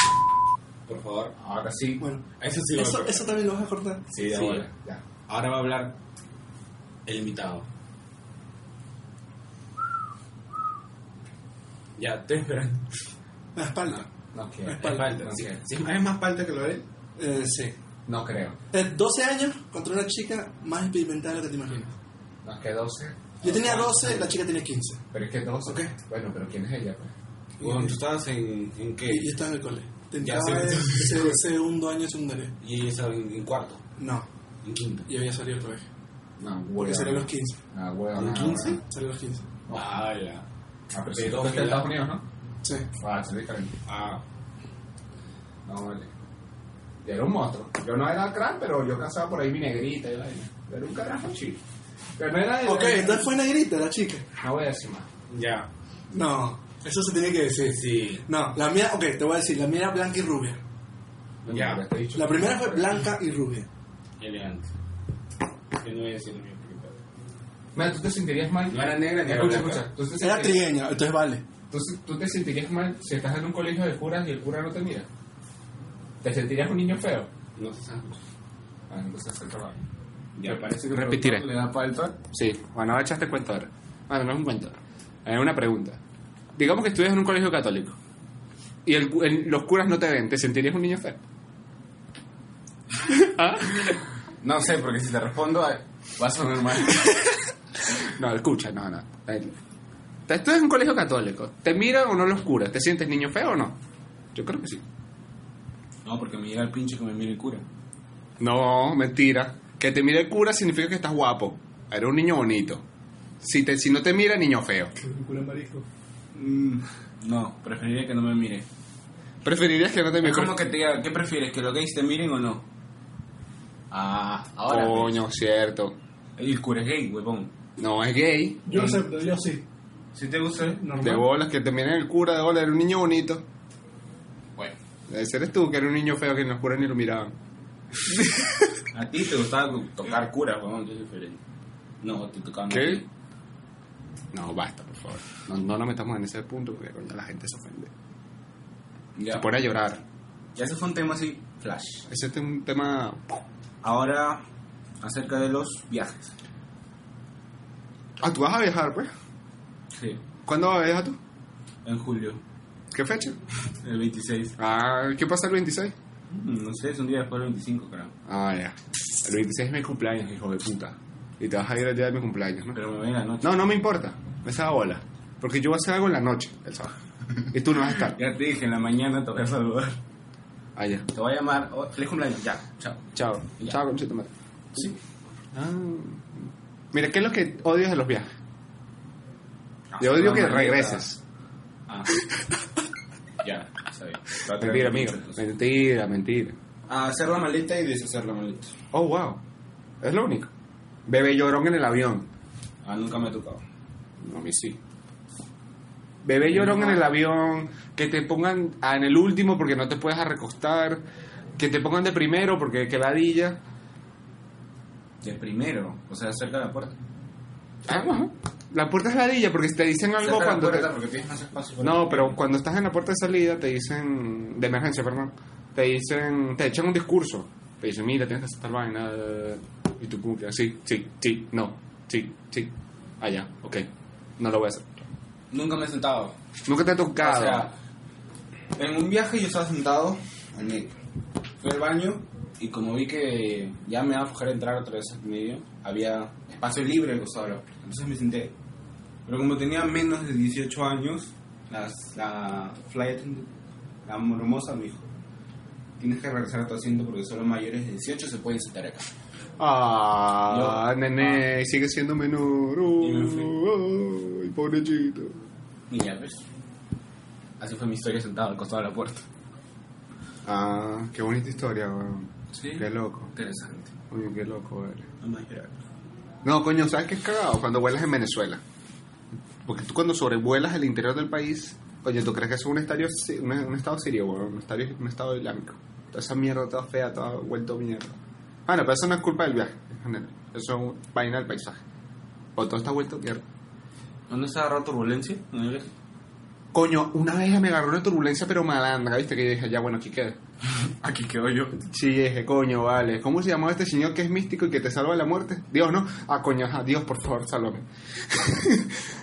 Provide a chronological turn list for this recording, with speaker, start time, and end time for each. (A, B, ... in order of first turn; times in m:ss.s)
0:00.9-0:01.4 A
0:01.4-0:02.0 B
0:02.0-0:04.0 C
0:02.4-0:03.3 A
0:04.1-0:04.7 A
0:04.2-0:05.0 B
0:05.3-0:06.0 A
0:07.0-0:07.7 A
0:12.0-0:12.9 A
0:13.6-0:14.0 C
0:14.3-0:15.5 B
0:14.7-0:15.1 C
0:14.8-0:16.8 A
0:17.2-0:17.7 C
0:18.1-0:18.6 B
0:18.7-0:21.9 C
0:22.4-0:24.2 B
0:23.4-0:25.0 C
0:23.5-0:24.1 A
0:25.1-0:27.1 B
0:27.6-0:28.0 C
0:27.6-0:29.3 A
0:29.1-0:32.5 C
0:30.2-0:31.4 A
0:32.6-0:33.8 A
0:34.0-0:34.2 C
0:34.6-0:35.1 A
0:35.1-0:35.8 C
0:36.4-0:38.8 B
0:36.8-0:37.6 C
0:38.1-0:38.8 A
0:38.8-0:39.5 C
0:39.7-0:40.4 A
0:40.9-0:42.2 B
0:41.0-0:41.9 A
0:42.6-0:42.9 C
0:43.0-0:43.7 B
0:43.8-0:44.2 A
0:45.6-0:46.1 B
0:47.0-0:51.6 B
0:52.2-0:53.3 B
0:52.6-0:54.2 C
0:54.4-0:55.1 B
0:55.3-0:55.7 A
0:56.1-1:00.6 C
0:57.6-0:58.2 A
1:01.4-1:03.1 B
1:01.5-1:01.8 A
1:02.1-1:03.7 C
1:04.2-1:04.7 A
1:05.8-1:07.0 A
1:07.7-1:10.6 B
1:08.7-1:09.8 A
1:10.2-1:11.4 C
1:11.7-1:15.1 B
1:16.2-1:17.3 B
1:17.6-1:18.2 A
1:18.9-1:19.8 B
1:20.4-1:22.2 A
1:20.4-1:21.4 B
1:22.3-1:26.0 B
1:26.6-1:28.0 B
1:28.8-1:31.2 B
1:33.0-1:34.0 B
1:34.4-1:37.1 A
1:38.0-1:39.6 B
1:40.3-1:43.8 B
1:44.3-1:44.8 B
1:46.0-1:47.6 A
1:48.4-1:52.8 B
1:53.4-1:54.9 B
1:55.0-1:55.8 C
1:56.3-1:58.7 A
1:59.4-2:00.6 B
2:00.2-2:02.6 A
2:03.9-2:05.2 A
2:04.7-2:06.0 B
2:06.4-2:07.5 A
2:07.8-2:08.9 B
2:08.7-2:09.6 C
2:10.1-2:11.0 A
2:10.6-2:11.2 C
2:11.0-2:13.4 B
2:15.1-2:17.3 B
2:18.1-2:18.5 B
2:18.9-2:21.4 A
2:22.0-2:23.1 A
2:22.7-2:23.0 B
2:24.3-2:27.9 B
2:29.2-2:29.5 A
2:29.3-2:30.0 B
2:30.6-2:32.0 A
2:32.1-2:33.4 B
2:33.8-2:34.4 A
2:35.0-2:36.3 A
2:38.2-2:39.1 B
2:39.9-2:40.2 A
2:40.4-2:41.2 B
2:41.8-2:42.4 A
2:42.9-2:43.4 B
2:43.8-2:44.6 A
2:44.6-2:45.9 B
2:46.3-2:48.1 A
2:48.3-2:52.8 B
2:52.7-2:53.5 A
2:53.4-2:57.0 B
2:57.5-2:58.2 B
2:58.1-3:00.0 A
3:00.8-3:01.1 B
3:01.1-3:03.8 A
3:03.1-3:04.9 B
3:05.5-3:08.3 B
3:09.9-3:11.0 A
3:10.0-3:11.2 B
3:11.9-3:12.2 A
3:13.4-3:15.4 A
3:14.5-3:16.6 B
3:16.9-3:18.7 A
3:18.9-3:19.4 B
3:20.0-3:20.5 B
3:21.0-3:22.3 B
3:22.8-3:23.6 A
3:24.2-3:24.8 B
3:26.2-3:31.0 B
3:26.4-3:27.1 A
3:31.6-3:33.6 B
3:35.2-3:37.0 A
3:37.8-3:40.9 B
3:40.2-3:42.4 A
3:41.8-3:55.1 B
3:55.5-3:56.3 A
3:56.6-3:57.7 B
3:57.2-3:57.7 A
3:58.8-4:00.9 A
4:01.6-4:08.5 A
4:09.2-4:13.5 A
4:14.0-4:15.1 A
4:16.0-4:19.1 A
4:19.6-4:25.4 B
4:20.5-4:21.4 A
4:23.0-4:23.5 A
4:25.9-4:26.4 A
4:27.6-4:29.2 A
4:30.4-4:33.3 B
4:32.5-4:33.9 A
4:34.1-4:35.1 B
4:35.2-4:35.8 A
4:36.4-4:38.6 B
4:39.6-4:51.8 B
4:52.6-4:53.4 B
4:54.3-4:55.9 A
4:56.7-5:00.4 B
5:00.7-5:01.8 A
5:01.8-5:09.0 B